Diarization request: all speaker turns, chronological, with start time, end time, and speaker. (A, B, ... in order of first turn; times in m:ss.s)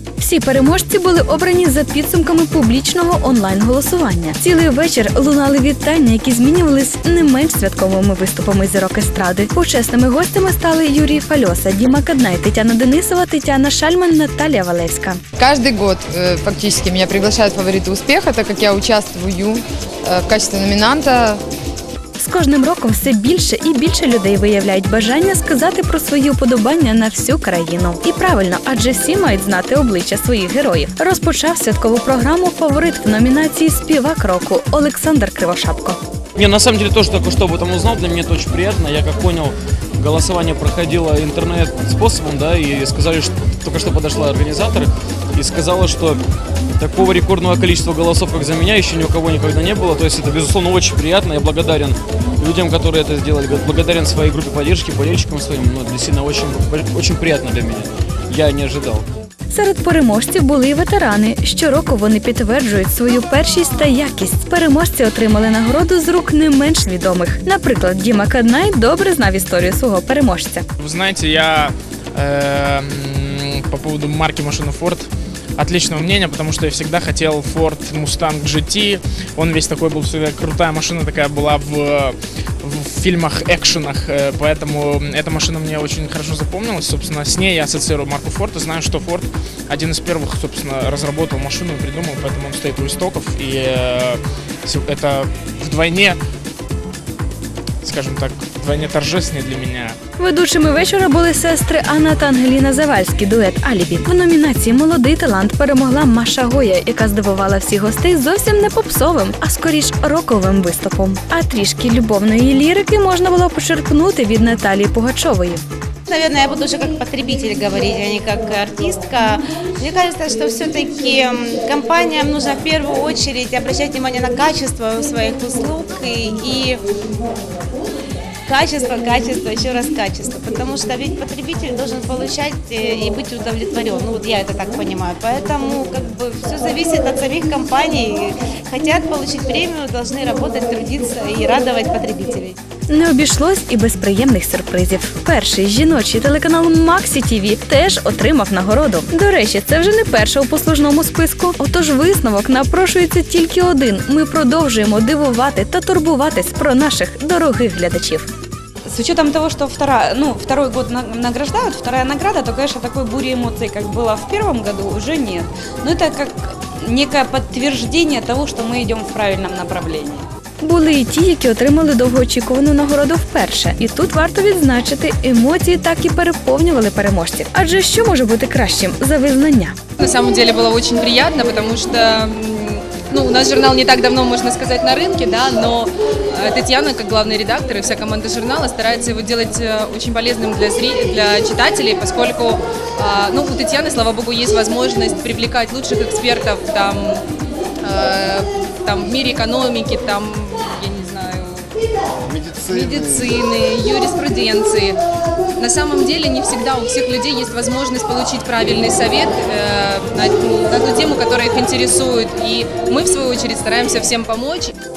0:00.2-0:15.2 A
0:15.4-0:15.7 B
0:19.0-0:19.6 B
0:20.8-0:21.0 B
0:22.2-0:36.0 A
0:36.4-0:46.2 C
0:46.8-0:59.0 C
0:59.5-1:10.6 A
1:10.8-1:36.2 D
1:37.8-1:40.0 D
1:40.2-1:55.6 A
1:56.1-2:06.8 E
2:08.4-2:22.6 E
2:22.9-2:38.3 A
2:38.8-2:50.2 F
2:50.6-2:59.7 A
3:00.0-3:17.2 G
3:17.8-3:21.7 G
3:22.3-3:23.3 B
3:22.7-3:25.0 G
3:25.6-3:34.7 G